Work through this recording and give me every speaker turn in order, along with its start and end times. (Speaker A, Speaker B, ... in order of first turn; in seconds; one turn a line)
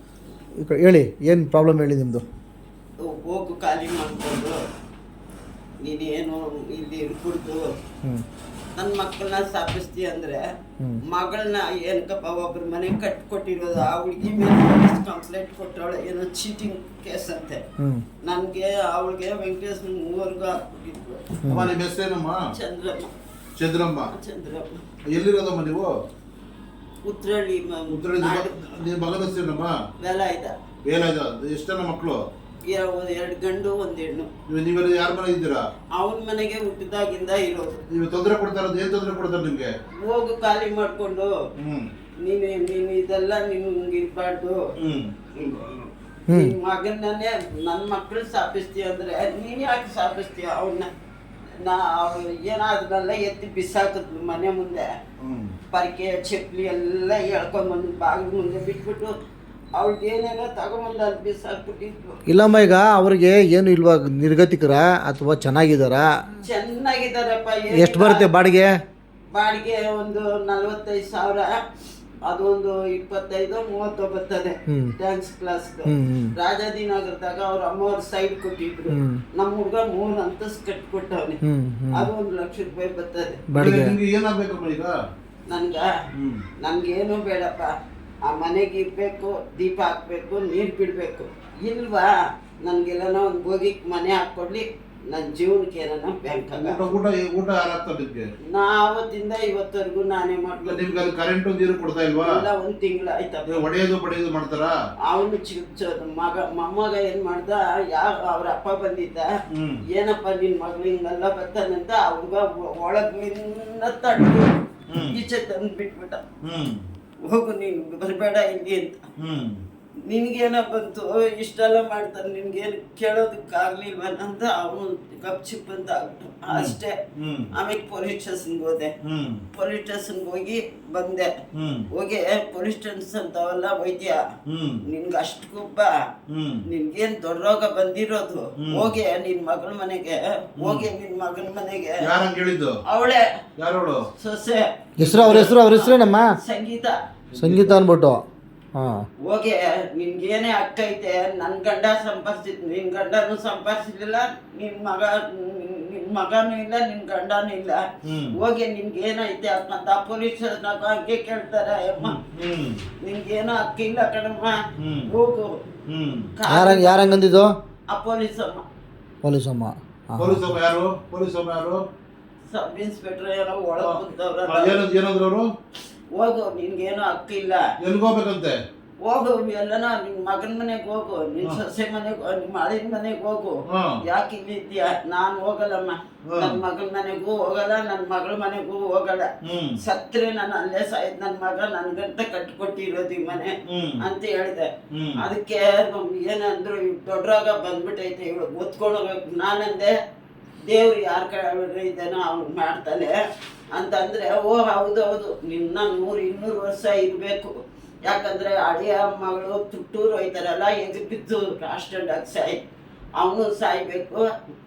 Speaker A: 0.6-2.2
Speaker B: 3.0-4.6
Speaker B: 5.8-7.7
Speaker B: 8.8-10.4
Speaker B: 11.1-17.6
Speaker A: 17.8-18.0
Speaker B: 18.2-21.3
Speaker A: 21.4-21.7
Speaker C: 21.5-22.4
Speaker B: 22.5-23.1
Speaker C: 23.6-24.1
Speaker B: 24.1-24.7
Speaker C: 25.1-25.9
Speaker B: 27.1-28.6
Speaker C: 27.9-29.7
Speaker B: 30.0-30.6
Speaker C: 30.9-32.2
Speaker B: 32.7-34.3
Speaker C: 34.5-35.6
Speaker B: 36.0-37.8
Speaker C: 37.9-39.7
Speaker B: 40.0-41.3
Speaker C: 41.6-41.9
Speaker B: 42.2-44.6
Speaker C: 44.8-45.1
Speaker B: 45.3-50.9
Speaker A: 46.3-46.5
Speaker B: 51.6-54.9
Speaker C: 55.2-55.5
Speaker B: 55.7-59.1
Speaker B: 59.8-62.2
Speaker A: 62.3-66.1
Speaker B: 66.4-68.3
Speaker A: 67.7-68.7
Speaker B: 69.3-71.5
Speaker B: 72.3-81.4
Speaker A: 74.7-74.9
Speaker A: 75.9-76.3
Speaker A: 78.9-79.2
Speaker A: 81.4-82.1
Speaker B: 81.9-83.5
Speaker A: 83.5-84.0
Speaker C: 83.5-84.9
Speaker B: 85.5-85.9
Speaker C: 86.1-86.4
Speaker B: 86.6-87.7
Speaker B: 88.3-96.9
Speaker C: 96.5-98.3
Speaker B: 98.5-100.8
Speaker C: 100.6-102.4
Speaker B: 102.2-103.7
Speaker C: 103.5-104.7
Speaker B: 105.1-109.3
Speaker C: 109.5-109.8
Speaker B: 109.9-116.2
Speaker C: 114.9-115.2
Speaker C: 116.4-116.8
Speaker B: 117.2-119.0
Speaker C: 119.2-119.6
Speaker B: 120.1-127.0
Speaker C: 126.5-127.5
Speaker B: 127.5-128.9
Speaker C: 129.0-129.4
Speaker B: 129.5-131.3
Speaker C: 131.5-131.9
Speaker B: 131.9-134.2
Speaker C: 134.5-134.8
Speaker B: 134.8-136.0
Speaker C: 136.3-136.6
Speaker B: 136.7-142.1
Speaker C: 138.6-138.9
Speaker C: 140.6-140.9
Speaker C: 142.0-142.8
Speaker B: 142.8-143.2
Speaker C: 143.6-144.1
Speaker B: 144.2-147.0
Speaker C: 145.0-145.6
Speaker A: 145.0-146.3
Speaker C: 147.3-147.8
Speaker A: 147.4-148.2
Speaker A: 148.8-149.1
Speaker B: 149.2-162.2
Speaker C: 158.0-158.3
Speaker C: 162.0-162.8
Speaker B: 163.0-165.6
Speaker C: 164.8-165.1
Speaker C: 165.9-166.3
Speaker B: 166.4-167.2
Speaker A: 166.5-167.5
Speaker B: 167.9-168.6
Speaker A: 169.2-170.4
Speaker C: 170.2-171.8
Speaker B: 172.5-174.8
Speaker C: 173.8-175.5
Speaker B: 176.1-177.7
Speaker C: 177.8-178.6
Speaker B: 179.0-199.9
Speaker C: 183.7-184.0
Speaker C: 186.3-186.6
Speaker C: 189.4-189.8
Speaker C: 193.7-194.0
Speaker C: 194.9-195.2
Speaker B: 200.7-203.2
Speaker B: 203.7-207.5
Speaker B: 208.1-212.6
Speaker B: 213.2-214.3